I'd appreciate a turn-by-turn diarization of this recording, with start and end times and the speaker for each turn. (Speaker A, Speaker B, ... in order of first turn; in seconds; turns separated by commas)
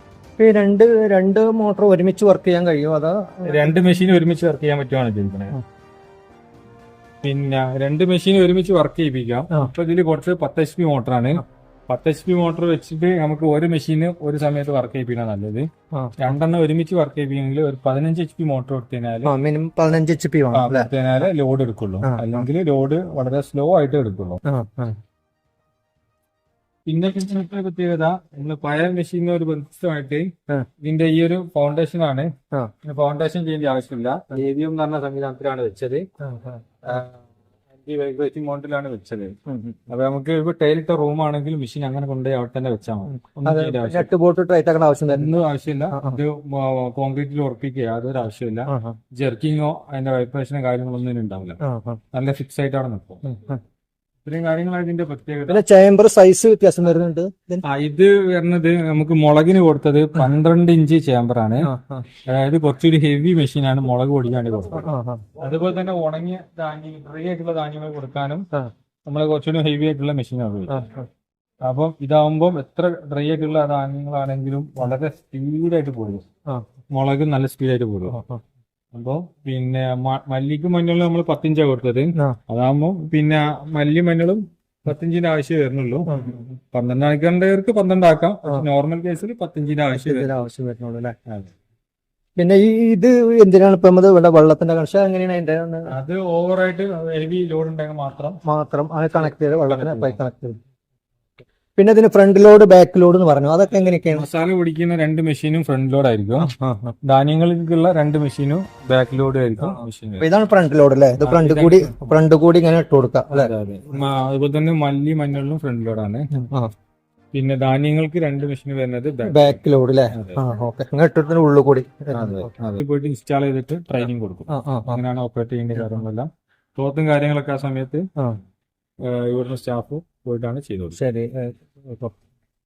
Speaker A: 0.4-3.7, Speaker B: 3.4-5.6, Speaker B: 7.2-19.3, Speaker A: 19.2-20.9, Speaker B: 20.5-24.4, Speaker A: 22.0-22.5, Speaker A: 24.4-25.0, Speaker B: 26.9-32.3, Speaker B: 32.8-36.1, Speaker A: 36.2-36.6, Speaker B: 36.8-39.4, Speaker A: 39.5-39.8, Speaker B: 39.9-44.1, Speaker A: 43.3-45.3, Speaker B: 45.1-51.6, Speaker A: 45.9-46.2, Speaker A: 48.7-49.0, Speaker A: 51.6-52.0, Speaker B: 52.1-53.2, Speaker A: 53.2-53.6, Speaker B: 54.2-55.6, Speaker A: 55.5-57.6, Speaker B: 57.6-61.7, Speaker A: 61.6-62.1, Speaker B: 62.2-64.9, Speaker A: 64.7-65.2, Speaker B: 65.4-68.5, Speaker B: 69.0-70.8, Speaker A: 70.7-71.1, Speaker B: 71.6-76.2, Speaker B: 76.9-78.2, Speaker A: 78.1-78.4, Speaker B: 78.9-90.3, Speaker A: 86.0-86.4, Speaker A: 89.9-91.1, Speaker B: 91.3-91.5, Speaker A: 92.4-95.9, Speaker B: 95.9-98.4, Speaker A: 98.4-100.6, Speaker B: 99.2-100.2, Speaker A: 101.8-104.3, Speaker B: 104.0-106.5, Speaker A: 106.4-106.9, Speaker B: 107.0-110.3, Speaker A: 109.6-113.5, Speaker B: 111.2-112.2, Speaker B: 113.3-116.3, Speaker A: 116.3-116.7, Speaker B: 117.3-120.4, Speaker A: 119.2-122.5, Speaker B: 122.1-128.1, Speaker A: 124.5-125.0, Speaker B: 129.0-131.0, Speaker A: 130.9-132.1